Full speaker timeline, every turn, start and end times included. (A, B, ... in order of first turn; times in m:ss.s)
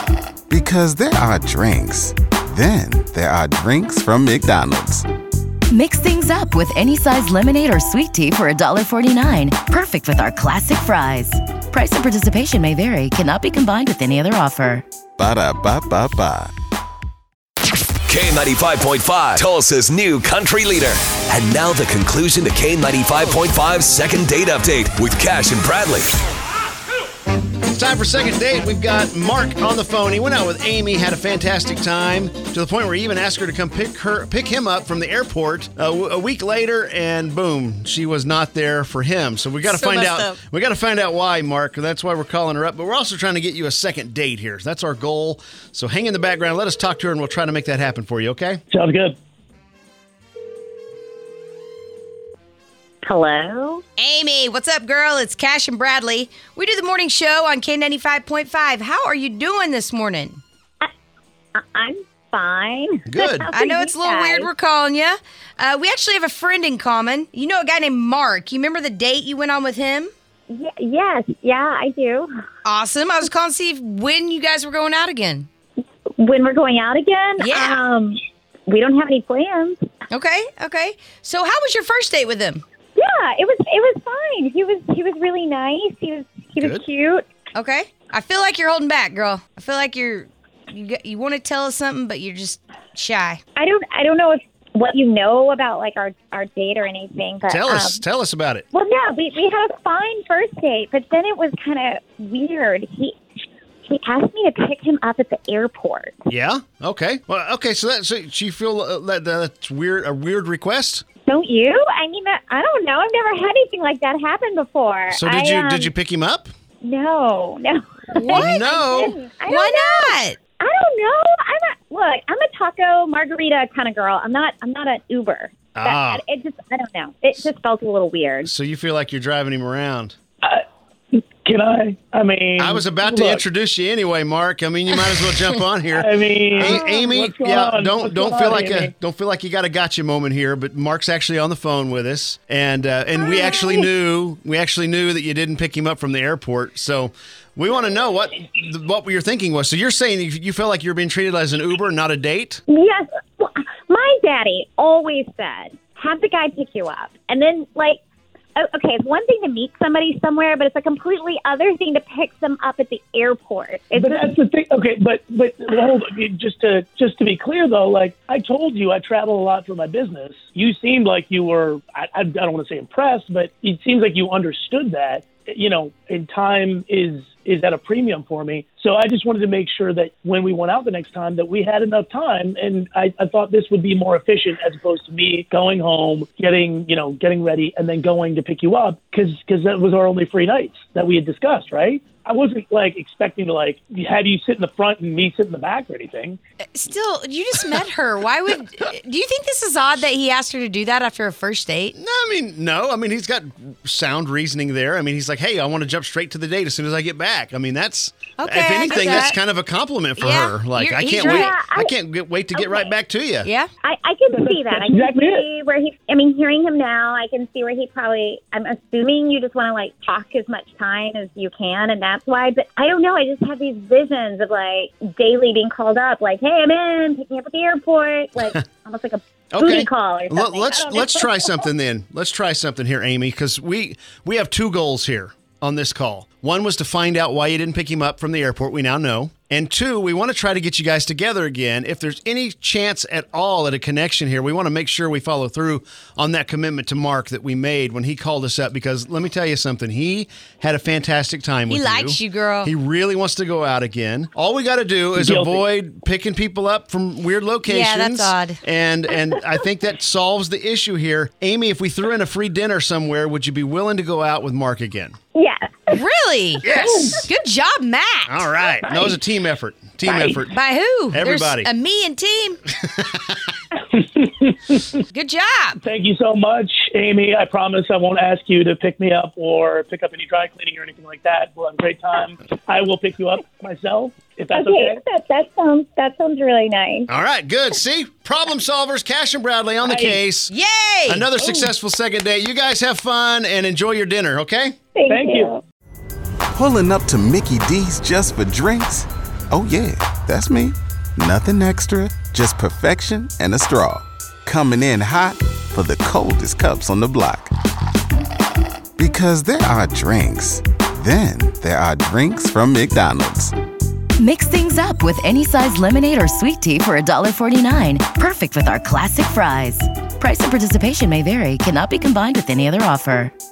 0:00.5-0:05.0 A
0:05.7-0:14.8 B
0:15.2-0:16.5 A
0:18.1-0:26.1 C
0:27.7-0:48.6 D
0:39.6-0:40.4 E
0:48.7-0:49.2 F
0:53.0-0:53.8 G
0:54.0-1:00.4 E
1:01.6-1:04.5 G
1:03.1-1:03.5 D
1:03.5-1:10.1 E
1:10.5-1:12.3 G
1:12.6-1:15.5 E
1:16.2-1:19.8 G
1:17.4-1:17.8 E
1:20.1-1:22.6 E
1:23.0-1:27.2 G
1:26.6-1:26.8 D
1:27.6-1:33.4 E
1:33.6-1:38.0 G
1:37.5-1:38.6 D
1:38.7-1:43.2 G
1:43.9-1:46.2 G
1:46.3-1:51.1 D
1:51.3-1:55.9 G
1:55.1-1:56.5 D
1:56.8-2:08.5 G
1:58.2-1:58.6 E
1:58.3-1:59.2 D
1:59.5-2:00.4 E
2:05.8-2:06.2 D
2:08.4-2:10.2 D
2:11.4-2:13.4 F
2:12.6-2:32.6 D
2:15.9-2:18.9 F
2:16.6-2:17.3 G
2:23.2-2:23.8 G
2:32.7-2:38.0 G
2:38.6-2:44.3 G
2:44.0-3:16.4 F
3:16.7-3:22.0 E
3:22.0-3:33.5 D
3:28.4-3:29.4 E
3:30.2-3:31.6 E
3:31.2-3:31.9 G
3:32.5-3:32.9 G
3:33.8-3:51.6 G
3:34.3-3:35.4 F
3:49.5-4:25.2 D
4:11.7-4:12.7 E
4:17.6-4:18.6 E
4:25.4-4:26.0 G
4:25.9-4:26.7 E
4:26.6-4:27.3 D
4:26.7-4:27.2 G
4:26.8-4:27.1 F
4:27.2-4:28.6 E
4:28.3-4:30.6 D
4:30.3-4:32.6 E
4:31.1-4:31.7 D
4:32.8-4:33.4 D
4:34.2-4:34.7 F
4:35.1-4:35.8 E
4:35.8-4:45.0 F
4:44.5-4:47.1 G
4:47.1-4:50.5 D
4:49.8-4:50.2 F
4:50.5-4:51.3 E
4:51.1-4:54.8 D
4:54.9-4:55.6 G
4:55.1-4:55.5 F
4:56.5-5:07.5 A
5:09.0-5:13.5 A
5:14.2-5:23.3 B